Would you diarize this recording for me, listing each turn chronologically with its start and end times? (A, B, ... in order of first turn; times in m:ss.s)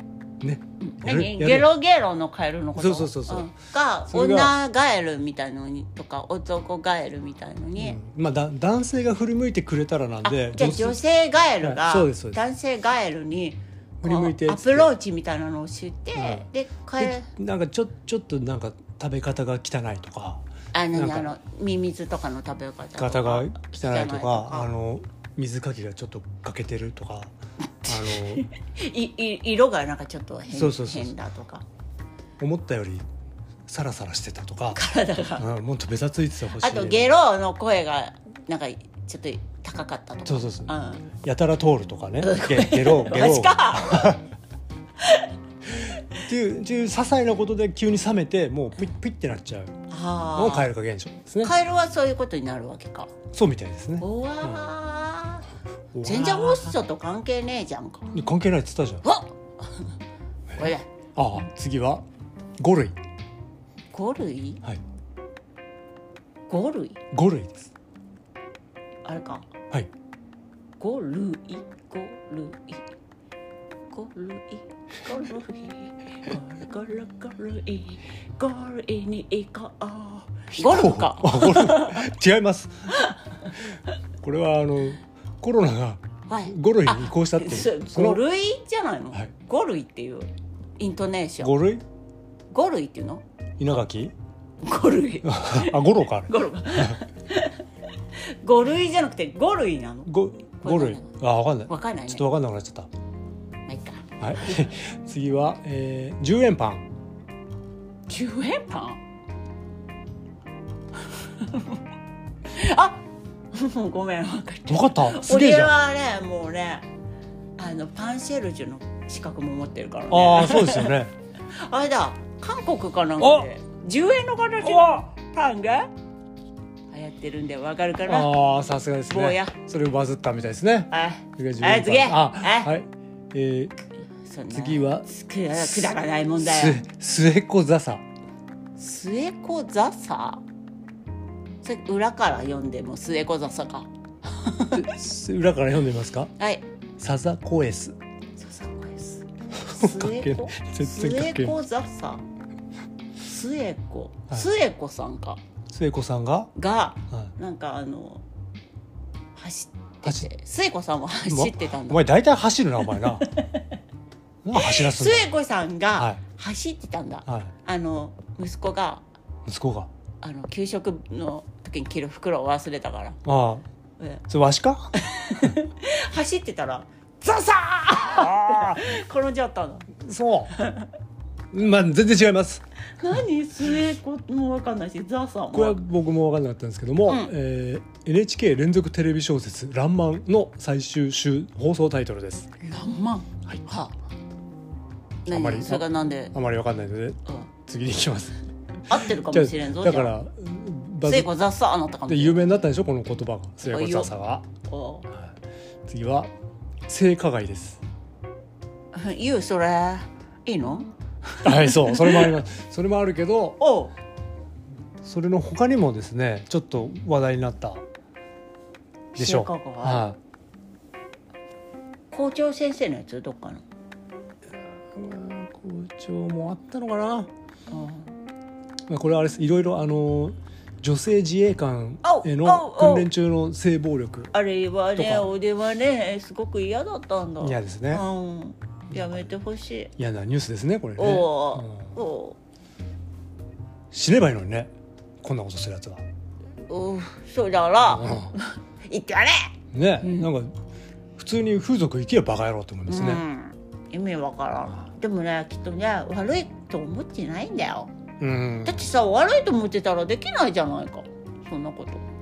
0:00.4-0:01.7 A
0:00.8-0:08.0 B
0:02.7-0:03.5 A
0:04.1-0:04.5 A
0:07.8-0:11.0 A
0:10.2-0:17.3 B
0:11.6-0:12.4 A
0:14.0-0:14.9 A
0:16.1-0:21.3 A
0:20.7-0:24.7 B
0:23.0-0:27.3 A
0:27.8-0:31.6 B
0:27.8-0:28.5 A
0:30.5-0:31.1 A
0:32.4-0:33.0 A
0:33.7-0:34.8 A
0:34.7-0:35.5 B
0:35.4-0:37.1 A
0:36.6-0:41.1 B
0:40.2-0:44.2 A
0:42.2-0:44.2 B
0:45.0-0:45.3 B
0:45.7-0:49.8 A
0:49.9-0:50.7 B
0:50.3-0:51.5 A
0:51.4-0:53.1 B
0:53.3-0:54.7 A
0:54.0-0:55.5 B
0:55.9-0:56.8 A
0:56.0-0:58.1 B
0:58.1-0:59.0 A
0:59.0-0:59.9 B
1:00.6-1:00.9 B
1:01.2-1:02.0 A
1:02.6-1:03.0 A
1:03.9-1:04.6 B
1:06.5-1:07.0 B
1:07.1-1:07.7 A
1:09.0-1:09.5 B
1:10.8-1:12.8 B
1:13.9-1:22.1 B
1:20.5-1:22.9 A
1:24.2-1:28.2 A
1:26.3-1:31.5 B
1:31.4-1:31.8 A
1:32.5-1:33.2 B
1:33.6-1:34.1 A
1:34.6-1:42.2 B
1:35.2-1:37.0 A
1:40.1-1:42.9 A
1:43.7-1:44.6 B
1:44.2-1:46.9 A
1:48.1-1:49.0 B
1:51.2-1:51.8 B
1:52.5-1:56.8 B
1:54.7-1:55.7 A
1:57.6-2:01.0 B
2:00.1-2:01.1 A
2:01.5-2:05.9 B
2:03.2-2:03.5 A
2:04.6-2:05.0 A
2:06.9-2:08.3 B
2:08.0-2:13.7 A
2:09.1-2:09.5 B
2:10.9-2:12.7 B
2:14.2-2:16.8 B
2:14.5-2:18.0 A
2:18.8-2:20.4 B
2:21.6-2:24.8 B
2:24.7-2:26.3 A
2:26.4-2:26.6 B
2:27.0-2:28.0 A
2:28.4-2:32.2 B
2:29.6-2:31.6 A
2:33.2-2:35.4 B
2:35.7-2:36.5 A
2:36.5-2:38.2 B
2:39.3-2:42.0 B
2:41.3-2:43.3 A
2:43.0-2:43.7 B
2:44.4-2:45.3 A
2:44.5-2:49.0 B
2:49.4-2:49.9 A
2:50.2-2:53.2 B
2:53.2-2:53.6 A
2:54.3-2:55.5 A
2:54.9-2:59.9 B
2:58.0-2:58.8 A
3:00.0-3:00.6 A
3:00.6-3:00.9 B
3:01.5-3:02.6 A
3:03.0-3:05.8 B
3:05.5-3:12.5 A
3:07.1-3:07.3 B
3:12.6-3:13.9 B
3:15.2-3:16.3 B
3:15.3-3:18.4 A
3:18.9-3:20.1 B
3:18.9-3:21.3 A
3:21.0-3:22.4 B
3:22.1-3:24.5 A
3:23.6-3:24.1 B
3:24.7-3:25.1 B
3:25.9-3:26.3 A
3:26.9-3:27.8 A
3:28.9-3:32.4 B
3:31.4-3:33.6 A
3:33.6-3:33.9 B
3:35.0-3:37.8 A
3:39.1-3:40.0 B
3:39.2-3:40.2 A
3:42.1-3:43.6 B
3:44.5-3:47.3 A
3:47.7-3:48.1 B
3:48.9-3:54.3 A
3:52.0-3:53.1 B
3:54.3-3:59.9 B
3:54.9-3:55.3 A
3:57.4-3:58.0 A
3:58.9-3:59.3 A
4:00.0-4:01.9 A
4:01.0-4:02.4 B
4:03.9-4:06.0 A
4:06.7-4:10.3 B
4:07.8-4:08.3 A
4:09.7-4:10.5 A
4:11.2-4:13.2 A
4:12.9-4:17.9 B
4:18.2-4:18.9 A
4:18.6-4:22.0 B